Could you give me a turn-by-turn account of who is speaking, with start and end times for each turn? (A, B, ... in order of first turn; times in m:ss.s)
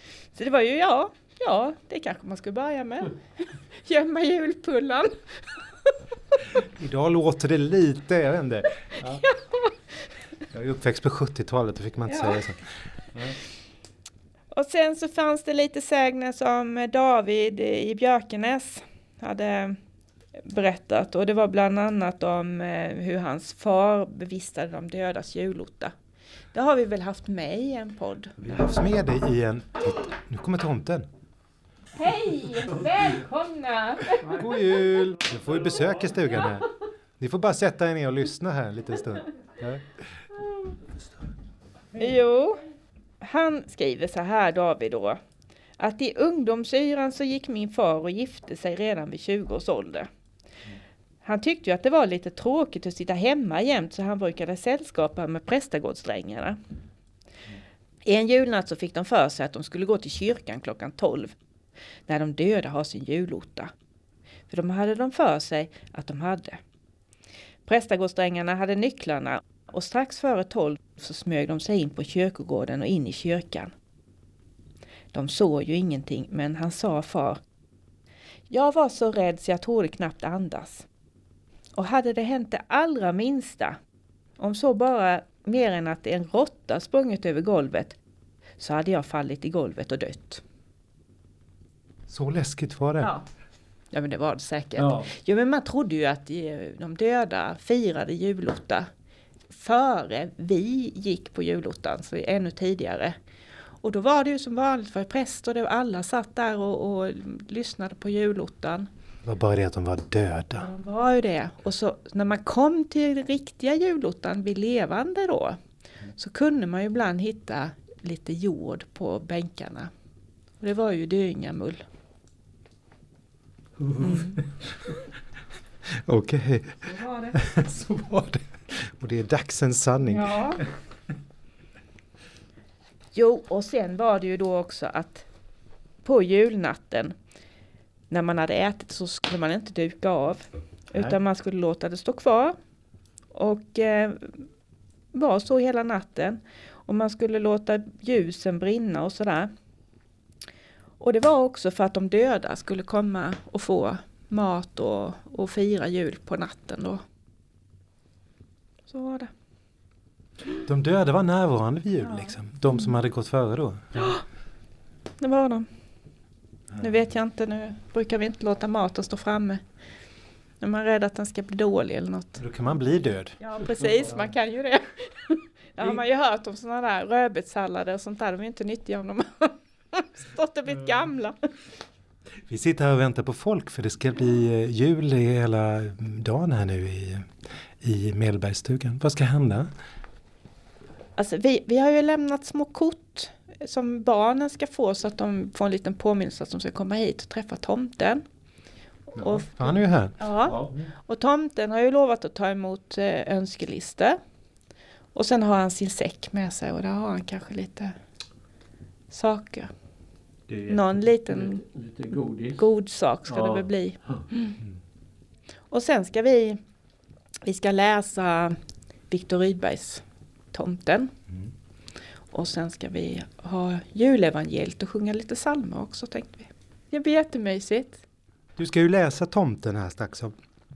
0:00.4-0:05.9 A
0:06.8-0:09.2 B
0:09.0-0:09.7 A
0:10.5-0:12.6 B
0:12.1-0:12.5 A
0:14.5-0:19.8 A
0:20.4-0:25.9 A
0:26.5-0:28.4 A
0:28.4-0:31.1 B
0:32.0-0:34.4 A
0:34.2-0:36.7 B
0:37.2-0:39.8 B
0:42.0-0:42.6 A
0:43.2-0:45.2 A
0:45.8-0:50.1 A
0:51.2-0:56.6 A
0:58.0-1:01.3 A
1:02.1-1:03.7 A
1:04.5-1:06.6 A
1:07.7-1:13.7 A
1:15.1-1:17.4 A
1:18.5-1:20.9 A
1:21.8-1:23.8 A
1:24.4-1:28.0 A
1:28.6-1:30.4 A
1:32.1-1:33.1 B
1:33.9-1:38.9 A
1:34.8-1:35.1 C
1:39.5-1:43.2 A
1:43.8-1:48.9 A
1:49.2-1:50.7 B
1:50.6-1:55.6 A
1:56.2-1:59.9 A
2:00.6-2:01.8 A
2:04.0-2:04.4 A
2:06.0-2:06.8 B
2:06.9-2:07.4 A
2:07.4-2:10.6 B
2:10.0-2:10.6 A
2:13.1-2:15.3 A
2:16.0-2:17.2 A
2:18.1-2:22.6 A
2:23.3-2:24.4 A
2:25.1-2:29.5 A
2:31.0-2:37.0 A
2:38.9-2:39.3 A
2:40.7-2:43.9 B
2:42.0-2:42.3 A
2:44.0-2:44.2 A
2:45.2-2:45.7 A
2:46.8-2:49.6 A
2:50.6-2:52.4 A
2:52.4-2:53.4 B
2:53.4-3:01.4 A
3:02.5-3:09.7 B
3:11.2-3:18.2 A
3:19.2-3:20.2 B
3:19.2-3:24.2 A
3:20.5-3:20.7 C
3:25.1-3:28.0 A
3:29.1-3:29.7 A
3:30.5-3:32.7 C
3:30.7-3:31.6 A
3:32.6-3:34.5 A
3:33.3-3:34.3 C
3:35.7-3:36.6 A
3:37.4-3:38.6 A
3:39.1-3:41.1 A
3:42.3-3:48.0 A
3:48.6-3:50.3 B